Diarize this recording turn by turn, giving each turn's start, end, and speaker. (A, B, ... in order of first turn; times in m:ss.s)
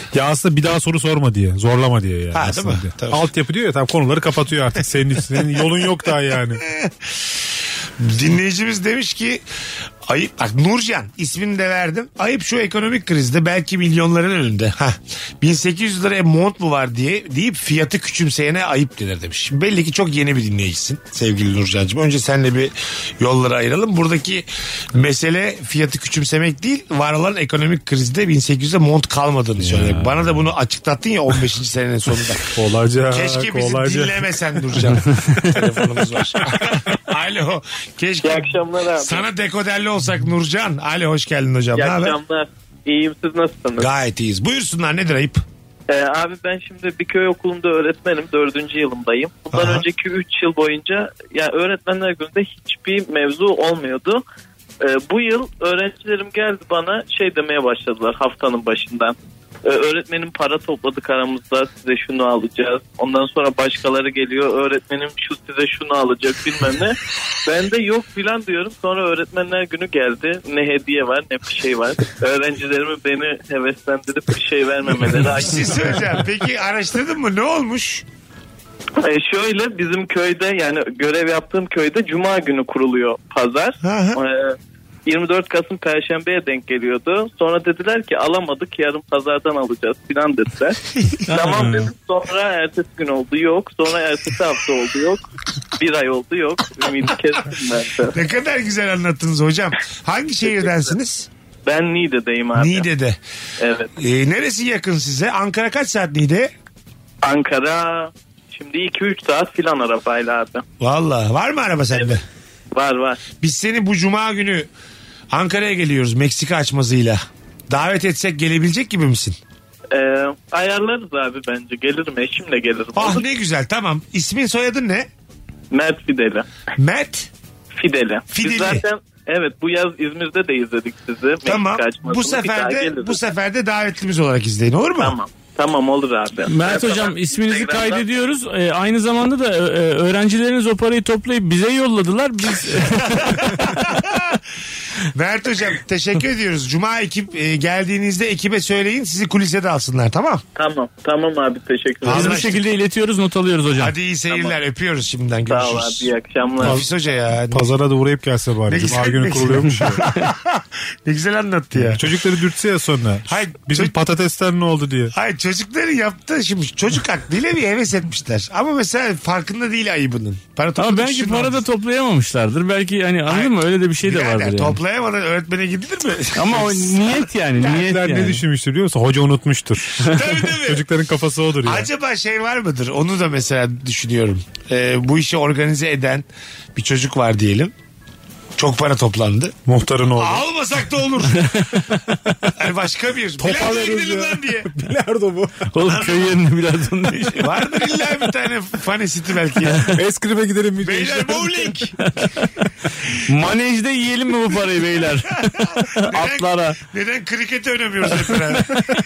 0:00.1-0:06.6 A
0:02.3-0:03.3 B
0:06.6-0:07.1 B
0:08.0-0:09.4 B
0:10.1-0:32.5 B
0:29.6-0:30.3 A
0:32.5-0:34.2 A
0:33.1-0:42.2 B
0:38.2-0:39.2 C
0:41.7-0:43.9 C
0:43.8-0:45.4 B
0:45.9-0:54.2 C
0:49.5-0:49.8 B
0:54.8-1:15.9 C
1:15.3-1:18.0 B
1:19.0-1:30.8 C
1:23.8-1:24.2 B
1:31.3-1:31.9 D
1:31.3-1:35.2 C
1:35.8-1:38.2 C
1:38.1-1:41.3 B
1:41.6-1:42.9 C
1:42.6-1:43.2 B
1:43.6-1:43.9 C
1:44.0-1:46.5 B
1:47.2-1:50.6 C
1:50.8-1:52.2 B
1:52.7-1:53.2 C
1:53.3-1:54.7 B
1:55.3-1:59.4 B
1:59.9-2:03.2 C
2:03.0-2:05.1 B
2:05.7-2:06.4 C
2:06.8-2:07.3 B
2:07.8-2:13.2 C
2:08.3-2:08.8 B
2:11.4-2:15.2 B
2:15.0-2:18.0 C
2:16.5-2:23.6 D
2:23.0-2:24.4 B
2:25.0-2:30.4 B
2:30.6-2:32.4 C
2:32.0-2:32.6 B
2:32.1-2:33.9 D
2:33.8-2:37.7 B
2:35.4-2:36.8 C
2:36.6-2:36.9 A
2:37.5-2:40.0 A
2:38.7-2:42.1 B
2:41.8-2:45.1 A
2:43.3-2:43.9 B
2:45.1-2:51.6 B
2:50.8-2:54.8 D
2:53.3-2:57.6 B
2:56.4-2:58.4 D
2:57.6-3:01.9 A
2:59.9-3:00.8 B
3:01.6-3:06.2 B
3:06.8-3:07.7 B
3:08.6-3:09.6 B
3:09.6-3:10.4 A
3:10.2-3:11.6 B
3:11.5-3:11.8 D
3:12.5-3:14.7 B
3:13.4-3:15.7 A
3:15.7-3:17.6 D
3:15.8-3:16.4 B
3:17.1-3:19.9 B
3:19.9-3:21.9 A
3:20.8-3:21.9 B
3:22.0-3:22.4 D
3:23.2-3:26.8 D
3:25.5-3:28.8 B